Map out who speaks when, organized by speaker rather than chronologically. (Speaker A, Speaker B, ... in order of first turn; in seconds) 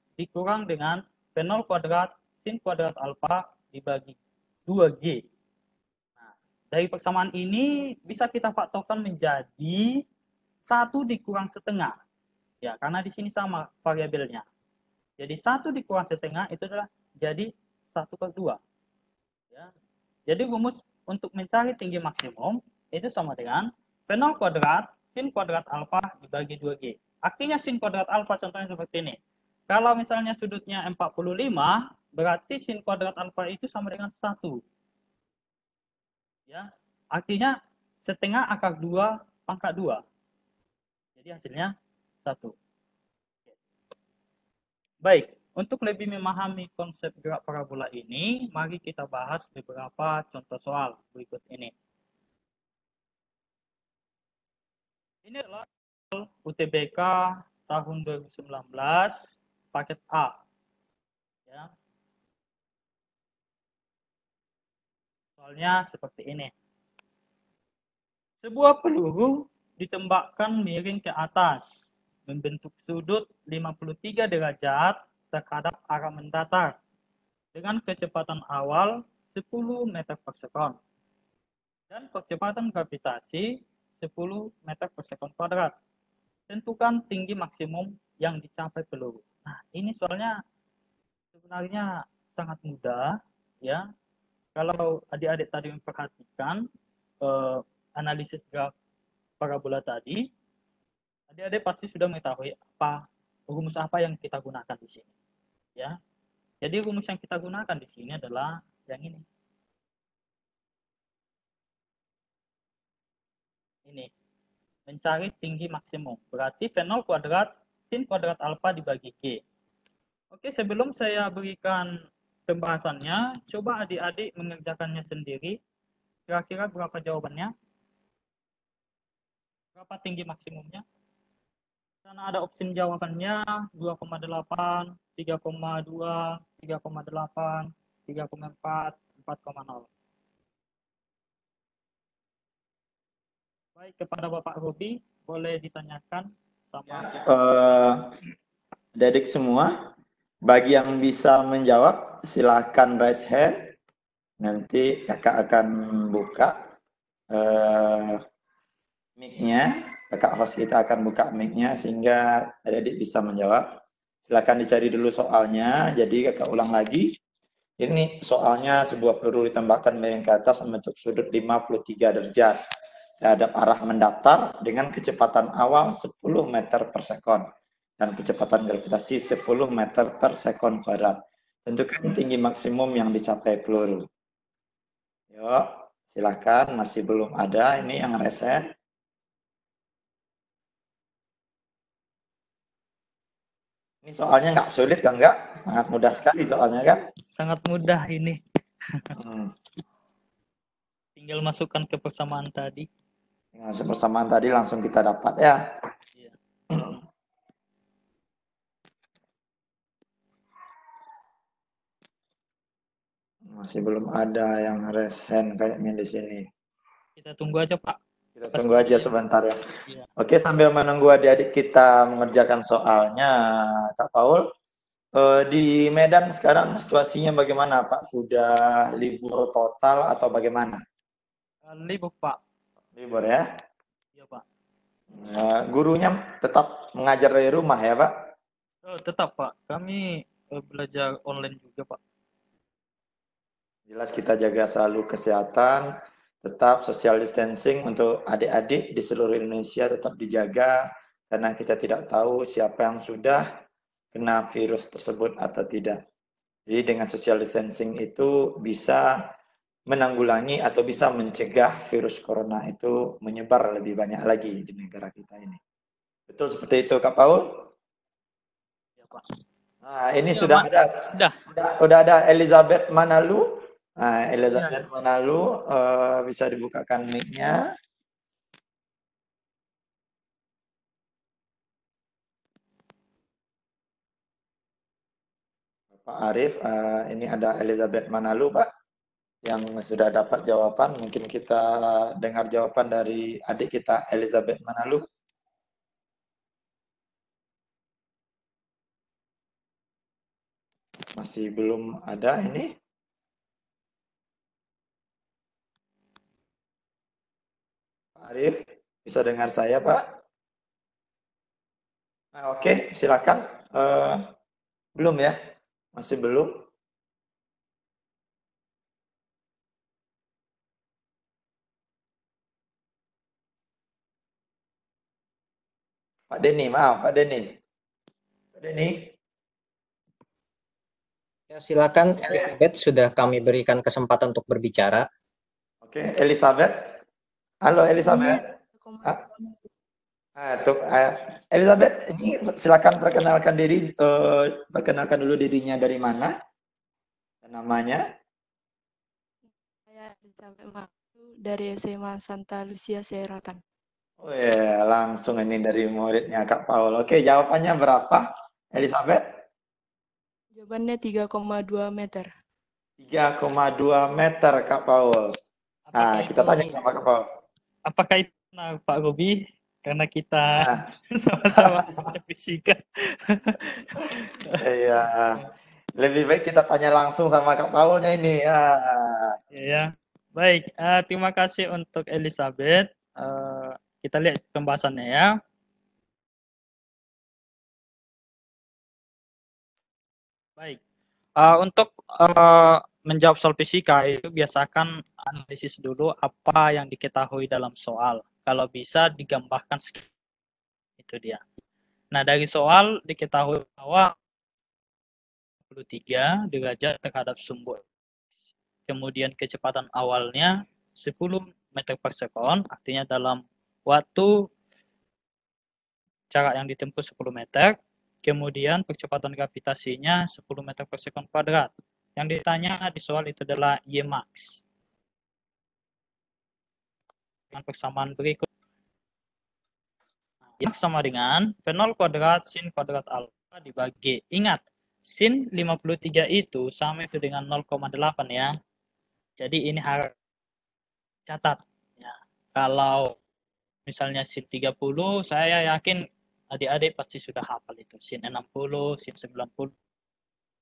Speaker A: 0.2-4.2, 4.7-5.2, 6.2-9.9, 10.7-12.0, 12.6-14.4, 15.2-18.6, 20.3-29.2, 29.7-34.6, 36.5-40.0, 41.2-41.7, 42.2-42.5, 45.0-51.7, 55.2-60.4, 65.4-66.5, 68.4-76.7, 77.5-80.8, 81.9-85.7, 86.5-90.4, 91.4-93.1, 94.6-96.6, 97.2-98.7, 99.4-100.2, 101.3-105.1, 106.6-109.2, 114.9-119.4, 120.3-121.9, 122.5-125.6, 126.3-127.5, 129.8-130.8, 132.1-139.9, 143.8-147.3, 197.3-198.4, 201.2-202.9, 217.2-218.0, 218.5-219.1, 231.7-232.4, 234.2-234.4, 238.8-242.0, 270.3-271.4, 365.9-366.7, 367.9-374.6, 379.5-385.3, 391.4-400.1, 401.0-401.4, 402.1-404.1, 405.7-407.8, 408.9-414.3, 416.3-417.7, 418.2-424.6, 427.5-428.5, 430.6-438.6, 439.4-440.1, 441.3-443.1, 443.9-449.7
Speaker B: 146.9-148.0, 149.0-149.7, 150.5-153.7, 154.4-156.5, 157.3-158.2, 159.2-163.7, 164.3-167.1, 167.8-172.6, 173.2-177.4, 178.0-184.1, 185.3-188.7, 194.1-197.0, 199.2-199.5, 203.6-205.6, 213.5-216.5, 218.4-219.6, 220.2-224.4, 225.2-230.8, 233.0-233.4, 235.2-238.1, 243.9-245.8, 246.4-250.8, 251.3-253.4, 254.1-256.0, 256.7-259.1, 259.9-265.6, 266.3-267.6, 269.8-277.6, 286.0-288.7, 289.5-295.0, 301.2-302.7, 308.2-310.0, 312.4-314.3, 315.0-315.4, 316.0-316.5, 326.3-327.5, 328.6-329.1, 335.8-336.9, 337.7-338.4, 340.4-346.4, 347.4-348.0, 354.2-359.2, 363.0-365.3, 366.0-367.2, 370.5-370.8, 371.6-372.1, 374.6-375.4, 376.0-379.4
Speaker C: 331.5-335.1
Speaker D: 338.0-339.2, 349.5-353.6, 360.6-362.3